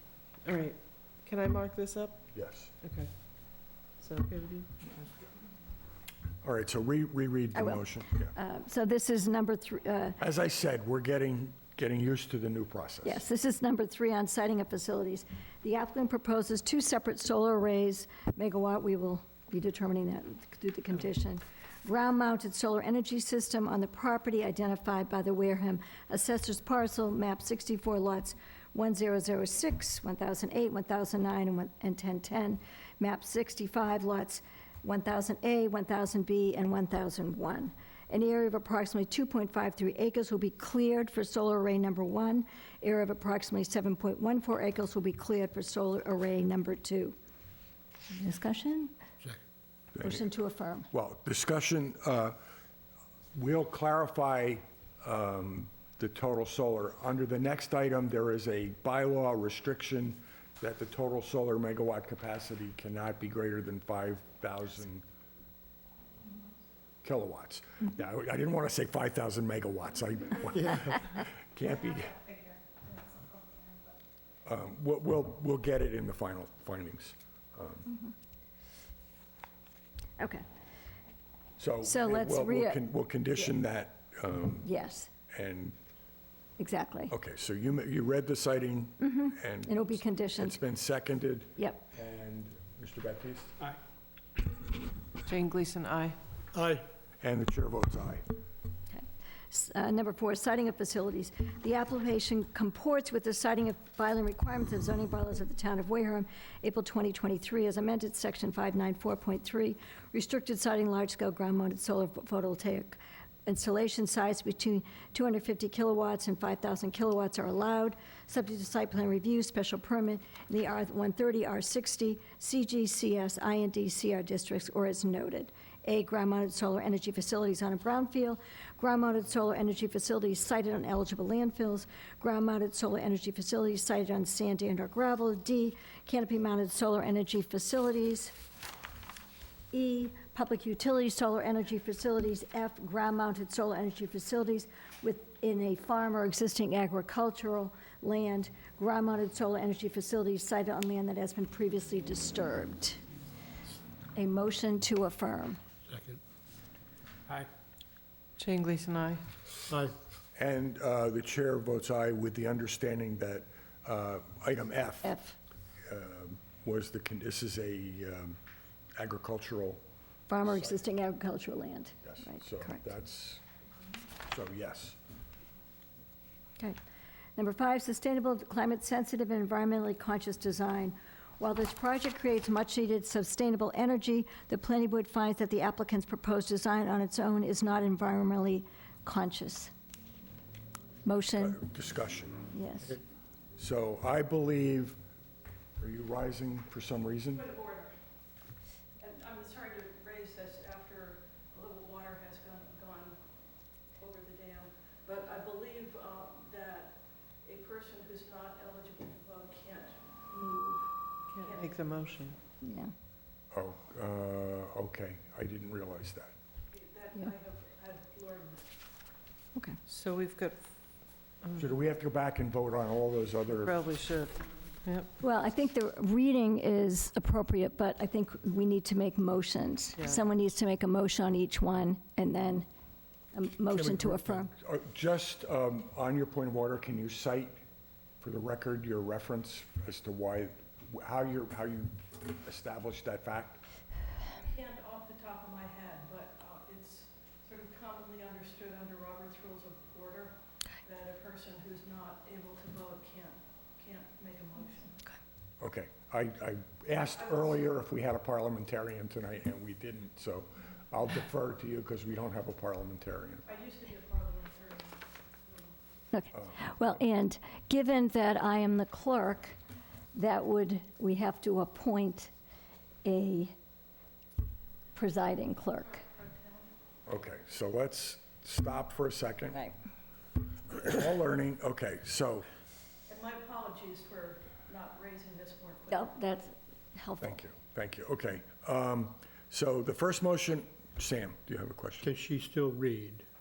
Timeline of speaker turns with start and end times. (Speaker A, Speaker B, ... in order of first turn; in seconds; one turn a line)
Speaker A: 0.4-5.1
Speaker B: 2.3-2.7
Speaker B: 6.4-8.3
Speaker C: 7.5-10.2
Speaker B: 10.2-13.2
Speaker C: 13.0-47.1
Speaker C: 48.1-48.9
Speaker B: 49.9-50.2
Speaker C: 50.0-50.9
Speaker B: 50.9-52.4
Speaker B: 53.3-65.0
Speaker B: 67.0-72.3
Speaker B: 74.4-77.9
Speaker C: 80.2-80.4
Speaker B: 81.6-84.7
Speaker C: 81.8-82.8
Speaker C: 84.6-85.1
Speaker B: 85.3-85.8
Speaker C: 86.6-87.1
Speaker B: 87.1-93.7
Speaker C: 89.0-90.6
Speaker C: 91.6-91.8
Speaker A: 95.2-96.2
Speaker D: 96.5-96.8
Speaker B: 97.2-98.2
Speaker C: 98.9-138.3
Speaker C: 139.7-153.0
Speaker C: 154.1-155.6
Speaker D: 155.9-156.2
Speaker A: 158.4-159.2
Speaker D: 159.7-159.9
Speaker B: 160.3-165.1
Speaker C: 165.0-165.4
Speaker B: 165.9-168.4
Speaker B: 168.9-169.8
Speaker C: 170.3-172.9
Speaker B: 170.4-170.8
Speaker B: 172.0-173.4
Speaker B: 174.2-175.0
Speaker C: 177.3-189.7
Speaker C: 191.0-191.6
Speaker B: 191.4-192.4
Speaker C: 192.5-193.0
Speaker B: 193.6-195.0
Speaker B: 195.8-197.4
Speaker E: 197.3-197.9
Speaker E: 199.0-203.2
Speaker E: 204.0-212.2
Speaker A: 211.3-212.4
Speaker C: 212.6-212.9
Speaker B: 213.5-216.3
Speaker E: 216.7-218.7
Speaker A: 219.8-220.6
Speaker B: 221.5-223.8
Speaker A: 223.6-225.1
Speaker C: 225.2-232.7
Speaker C: 233.3-234.5
Speaker B: 233.9-237.6
Speaker B: 238.2-243.6
Speaker E: 244.3-254.9
Speaker B: 255.6-263.4
Speaker E: 257.2-257.5
Speaker E: 263.4-265.7
Speaker C: 266.1-269.6
Speaker B: 266.3-266.9
Speaker C: 270.1-272.3
Speaker C: 273.0-273.5
Speaker C: 274.9-276.0
Speaker E: 275.9-276.7
Speaker B: 277.1-279.7
Speaker B: 280.7-282.4
Speaker E: 283.1-286.1
Speaker C: 285.9-287.4
Speaker B: 287.2-292.1
Speaker D: 292.0-293.2